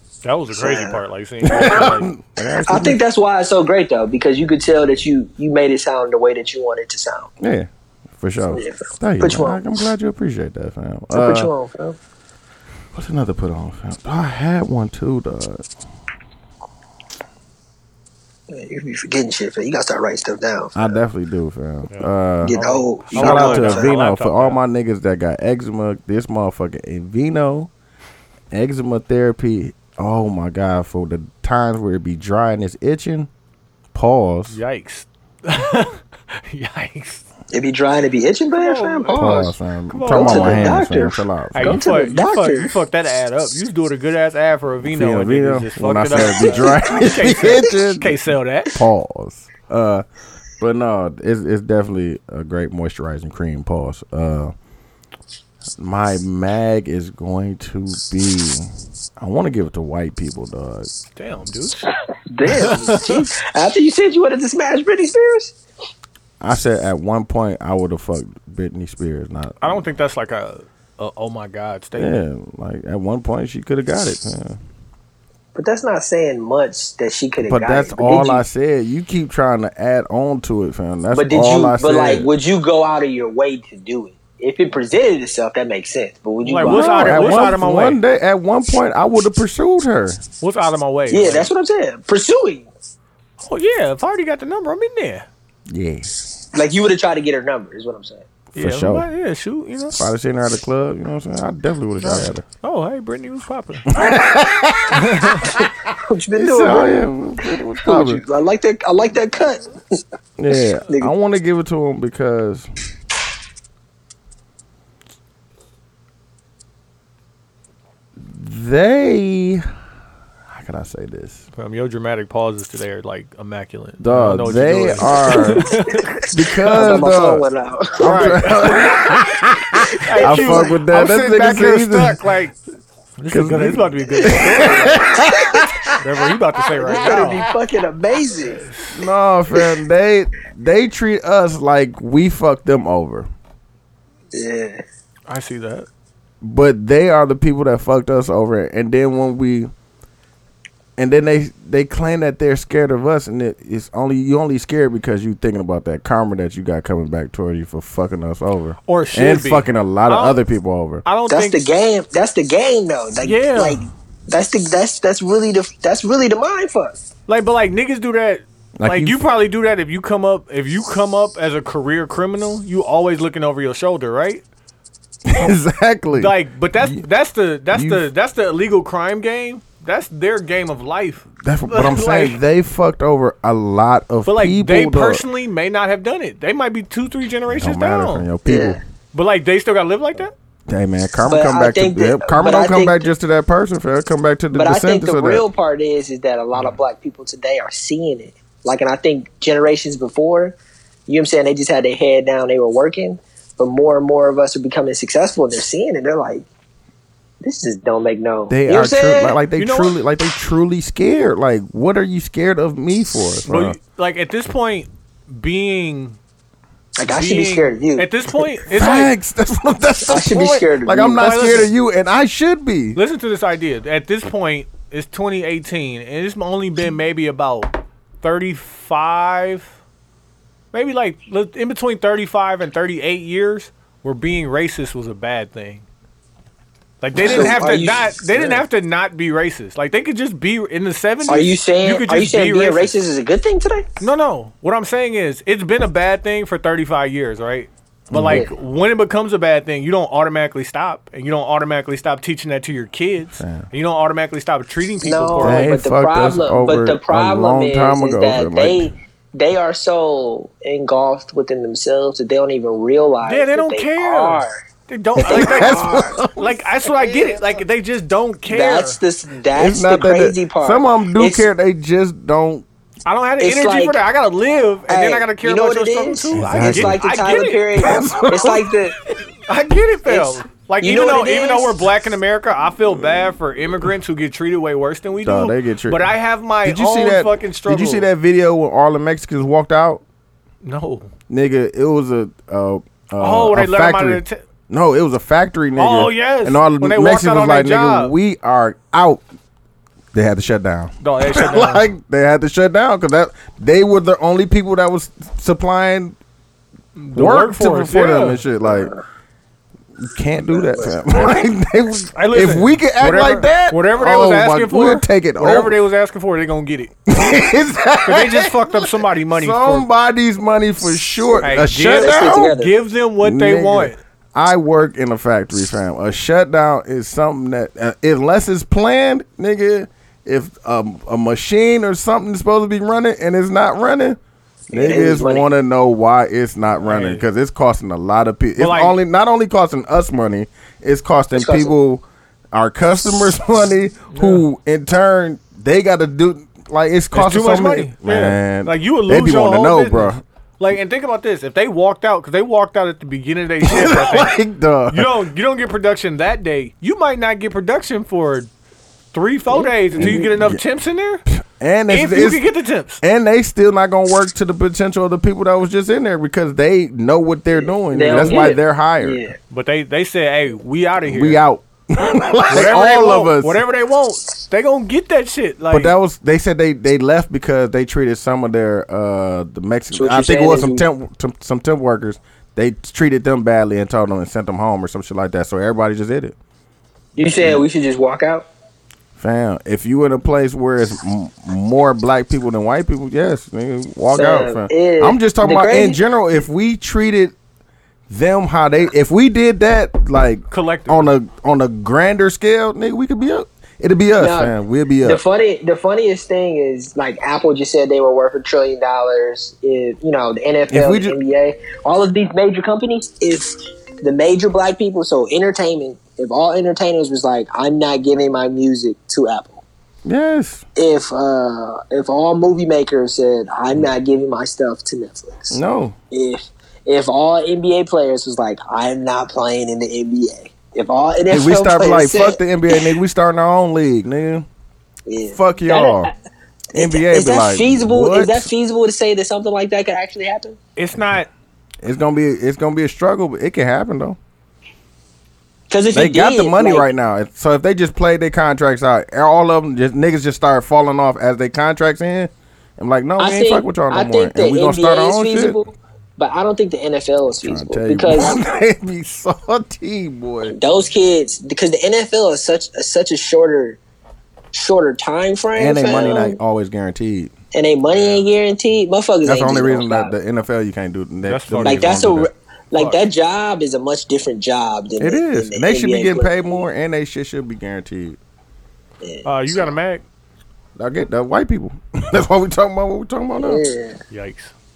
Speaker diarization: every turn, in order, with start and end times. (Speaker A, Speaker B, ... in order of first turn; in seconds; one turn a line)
Speaker A: 0.2-2.1
Speaker B: 0.5-1.0
Speaker C: 1.4-3.0
Speaker B: 2.6-7.3
Speaker C: 7.4-11.5
Speaker B: 8.5-9.6
Speaker B: 11.1-12.0
Speaker C: 12.9-15.6
Speaker B: 18.5-20.8
Speaker C: 20.7-22.6
Speaker A: 21.9-24.6
Speaker B: 22.4-23.9
Speaker C: 23.1-27.7
Speaker C: 28.5-33.3
Speaker C: 33.9-34.6
Speaker A: 34.5-37.2
Speaker B: 37.5-39.5
Speaker A: 38.6-39.3
Speaker C: 39.1-41.8
Speaker A: 39.9-40.8
Speaker B: 40.1-42.7
Speaker A: 41.5-48.8
Speaker C: 44.8-48.2
Speaker C: 48.7-50.0
Speaker C: 50.6-54.5
Speaker C: 55.8-60.9
Speaker A: 61.1-61.9
Speaker B: 62.3-65.5
Speaker A: 62.5-63.2
Speaker C: 66.4-69.8
Speaker A: 69.6-72.2
Speaker C: 72.0-74.6
Speaker B: 75.5-78.4
Speaker C: 77.4-82.3
Speaker B: 81.1-87.4
Speaker A: 86.4-88.0
Speaker C: 86.6-90.2
Speaker A: 90.4-91.5
Speaker B: 91.1-92.7
Speaker A: 93.4-95.2
Speaker C: 95.7-96.3
Speaker B: 96.5-98.2
Speaker A: 98.5-100.0
Speaker C: 98.5-99.1
Speaker C: 100.0-102.4
Speaker A: 102.0-103.9
Speaker C: 103.9-105.8
Speaker A: 104.9-105.5
Speaker B: 106.0-107.1
Speaker C: 106.3-108.2
Speaker B: 107.8-109.7
Speaker C: 110.4-112.7
Speaker C: 118.2-119.6
Speaker C: 120.5-121.4
Speaker A: 121.5-126.2
Speaker C: 124.0-125.7
Speaker C: 126.3-127.5
Speaker B: 126.6-129.1
Speaker C: 128.0-132.2
Speaker A: 128.0-128.9
Speaker B: 129.8-130.7
Speaker A: 130.0-132.6
Speaker A: 133.2-135.1
Speaker C: 133.3-136.0
Speaker B: 134.2-135.9
Speaker A: 135.9-137.5
Speaker B: 136.8-138.6
Speaker C: 136.9-137.4
Speaker A: 138.6-139.0
Speaker C: 138.9-143.3
Speaker B: 144.3-144.8
Speaker A: 145.3-145.9
Speaker C: 146.4-149.7
Speaker C: 151.0-161.0
Speaker A: 158.9-160.4
Speaker A: 161.0-161.6
Speaker B: 161.3-167.0
Speaker A: 163.2-163.8
Speaker A: 167.3-174.4
Speaker C: 168.8-169.2
Speaker C: 175.2-177.0
Speaker A: 176.1-182.4
Speaker C: 177.7-178.0
Speaker C: 181.4-185.2
Speaker A: 184.2-188.3
Speaker C: 187.5-188.8
Speaker B: 188.4-188.8
Speaker A: 189.1-190.3
Speaker C: 190.7-195.4
Speaker B: 191.2-193.1
Speaker B: 194.5-200.6
Speaker B: 201.1-206.4
Speaker B: 207.4-209.4
Speaker C: 208.5-213.8
Speaker A: 209.6-210.0
Speaker A: 213.4-216.2
Speaker B: 217.0-218.1
Speaker A: 217.0-219.1
Speaker C: 218.7-223.0
Speaker B: 220.1-221.2
Speaker A: 221.2-221.7
Speaker A: 222.9-229.7
Speaker A: 230.7-235.8
Speaker A: 237.0-242.9
Speaker B: 237.2-238.6
Speaker C: 237.2-237.5
Speaker B: 241.3-243.9
Speaker A: 244.0-255.7
Speaker C: 248.1-248.5
Speaker B: 248.3-248.5
Speaker C: 253.4-253.7
Speaker B: 255.0-264.6
Speaker C: 255.4-258.9
Speaker A: 263.2-269.0
Speaker C: 265.2-266.6
Speaker B: 265.2-266.2
Speaker B: 268.5-271.5
Speaker C: 269.5-272.6
Speaker A: 273.1-277.6
Speaker B: 273.4-274.0
Speaker B: 274.9-279.0
Speaker C: 276.3-277.0
Speaker C: 277.8-278.7
Speaker A: 279.5-288.1
Speaker B: 280.1-281.8
Speaker C: 285.2-286.1
Speaker C: 286.6-290.0
Speaker A: 290.6-291.1
Speaker C: 291.3-299.2
Speaker A: 293.2-294.4
Speaker A: 295.8-298.1
Speaker C: 300.1-306.1
Speaker A: 301.0-301.9
Speaker A: 306.9-308.4
Speaker C: 307.1-308.9
Speaker C: 310.0-315.8
Speaker B: 310.5-311.0
Speaker A: 312.1-317.1
Speaker C: 317.1-322.5
Speaker A: 318.0-319.9
Speaker A: 321.4-324.0
Speaker B: 321.9-322.7
Speaker C: 323.2-334.2
Speaker C: 334.7-350.2
Speaker B: 334.7-335.5
Speaker A: 336.8-337.2
Speaker A: 338.6-338.9
Speaker B: 341.3-341.7
Speaker A: 344.1-344.4
Speaker A: 347.1-358.5
Speaker C: 353.6-355.1
Speaker A: 359.1-361.2
Speaker C: 359.9-360.6
Speaker C: 361.3-362.4
Speaker A: 361.9-363.0
Speaker C: 363.0-369.2
Speaker B: 367.9-369.4
Speaker A: 368.0-368.6
Speaker A: 369.5-371.4
Speaker C: 371.0-373.6
Speaker A: 372.5-375.9
Speaker C: 375.7-386.3
Speaker B: 379.9-380.8
Speaker B: 387.2-388.5
Speaker C: 387.3-387.6
Speaker C: 389.2-397.3
Speaker B: 394.1-396.0
Speaker C: 398.1-405.2
Speaker A: 400.5-401.1
Speaker B: 404.1-419.6
Speaker C: 410.7-411.1
Speaker C: 420.0-420.6
Speaker B: 420.8-425.6
Speaker C: 425.5-426.0
Speaker B: 426.1-432.9
Speaker C: 431.3-434.4
Speaker B: 435.1-436.1
Speaker C: 435.3-436.1
Speaker B: 436.7-440.6
Speaker C: 436.7-438.5
Speaker A: 440.8-441.3
Speaker C: 441.8-444.2
Speaker B: 445.7-446.9
Speaker C: 445.9-455.6
Speaker B: 453.2-458.4
Speaker C: 457.4-460.6
Speaker B: 460.4-463.8
Speaker B: 464.5-466.4
Speaker C: 465.6-467.3
Speaker B: 467.5-470.1
Speaker A: 467.9-468.2
Speaker C: 469.2-472.3
Speaker A: 471.2-472.1
Speaker B: 471.6-476.6
Speaker A: 472.7-473.0
Speaker C: 475.0-478.2
Speaker B: 479.0-479.3
Speaker A: 479.2-480.0
Speaker C: 480.8-483.6
Speaker B: 483.4-484.0
Speaker A: 484.1-484.5